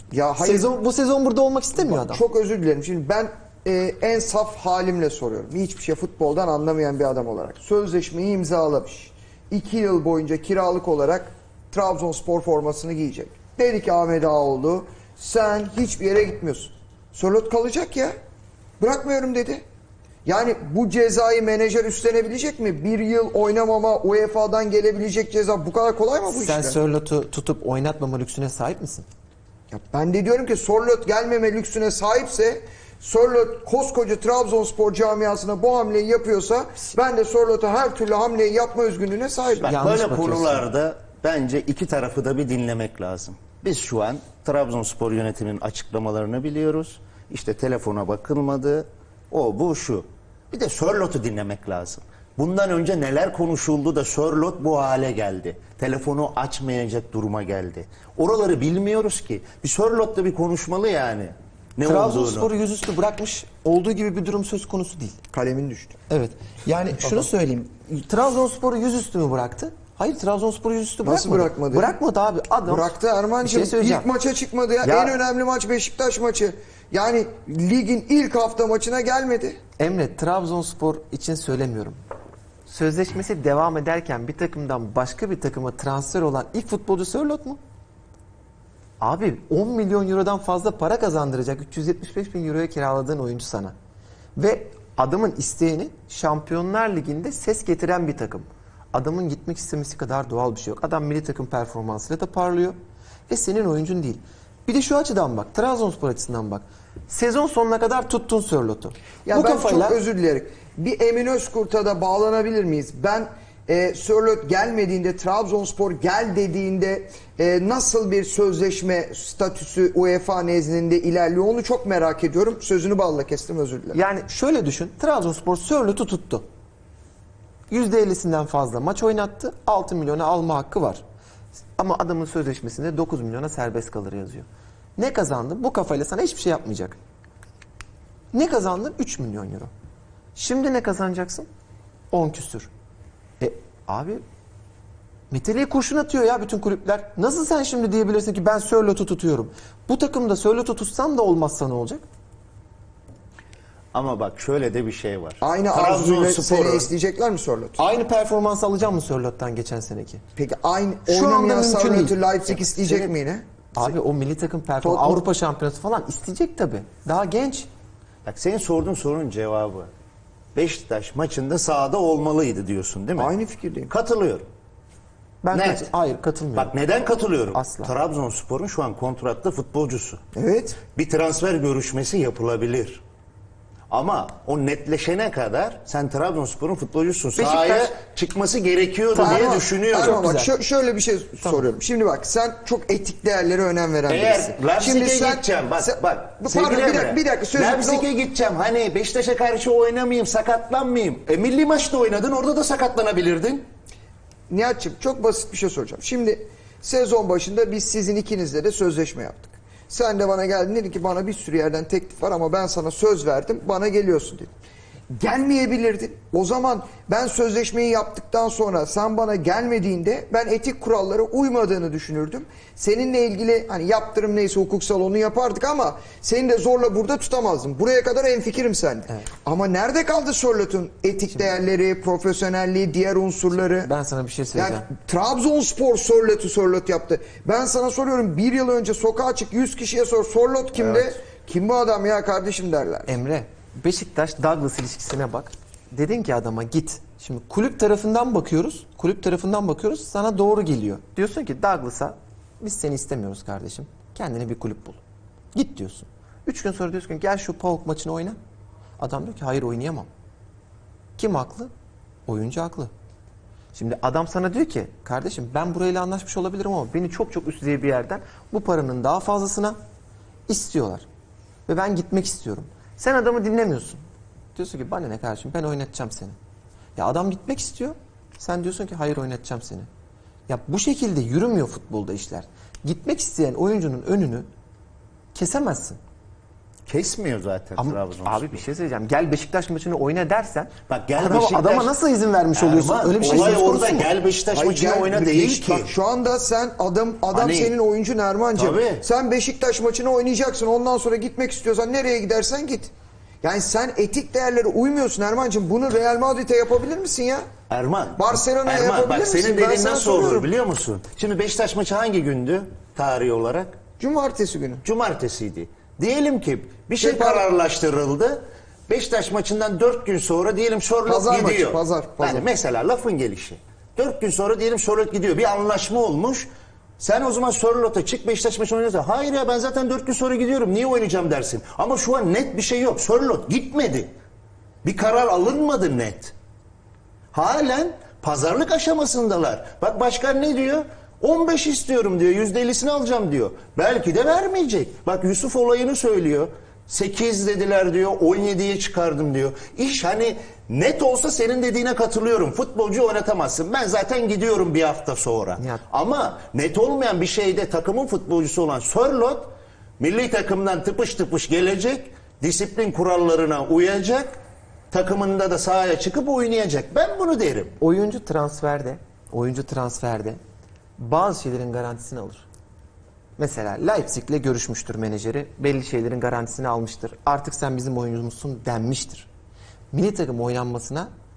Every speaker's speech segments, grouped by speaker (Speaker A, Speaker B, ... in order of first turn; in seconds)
Speaker A: 0.1-0.7, 1.8-18.1, 18.8-19.6, 20.2-26.8, 29.7-39.7, 65.3-66.0, 71.0-72.0, 72.7-79.6, 109.3-124.0, 155.4-157.8, 160.4-163.9, 164.8-165.3, 173.2-173.9, 180.3-180.8, 189.2-198.1, 204.5-214.5, 215.1-233.9, 234.5-243.1, 294.5-302.9, 303.4-307.5, 308.2-310.5, 314.0-314.8, 317.0-317.5, 321.1-322.5
Speaker B: 0.4-2.2, 26.3-29.1, 39.6-40.6, 61.8-65.2, 66.1-74.1, 74.8-75.2, 79.8-82.0, 82.7-87.6, 89.0-93.7, 94.4-102.8, 103.3-110.0, 123.9-126.4, 127.7-131.0, 131.8-137.0, 138.3-139.7, 140.4-141.5, 142.1-142.7, 143.4-144.2, 145.3-152.1, 157.8-160.2, 161.1-163.1, 163.8-167.7, 175.4-176.7, 177.5-177.9, 187.4-187.9, 189.1-190.5, 191.4-191.7, 233.6-234.9, 243.1-255.0, 255.5-258.4, 259.0-260.1, 261.2-261.7, 262.3-262.9, 263.7-269.8, 270.5-271.1, 271.7-274.0, 274.6-276.4, 277.0-279.9, 280.5-284.5, 285.3-286.0, 287.8-294.1, 355.6-355.8, 367.8-370.4, 371.0-372.5, 373.4-379.3, 379.9-381.1
Speaker C: 39.6-62.5, 153.9-156.9, 168.2-169.9, 170.6-173.3, 173.9-174.5, 175.5-175.9, 176.6-180.2, 180.9-183.0, 183.9-190.2, 194.1-203.6, 286.9-288.6, 290.9-291.9, 292.6-295.9, 297.3-297.7, 298.6-299.1, 307.7-313.8, 314.8-334.1, 334.8-336.3, 337.3-364.4, 364.9-367.8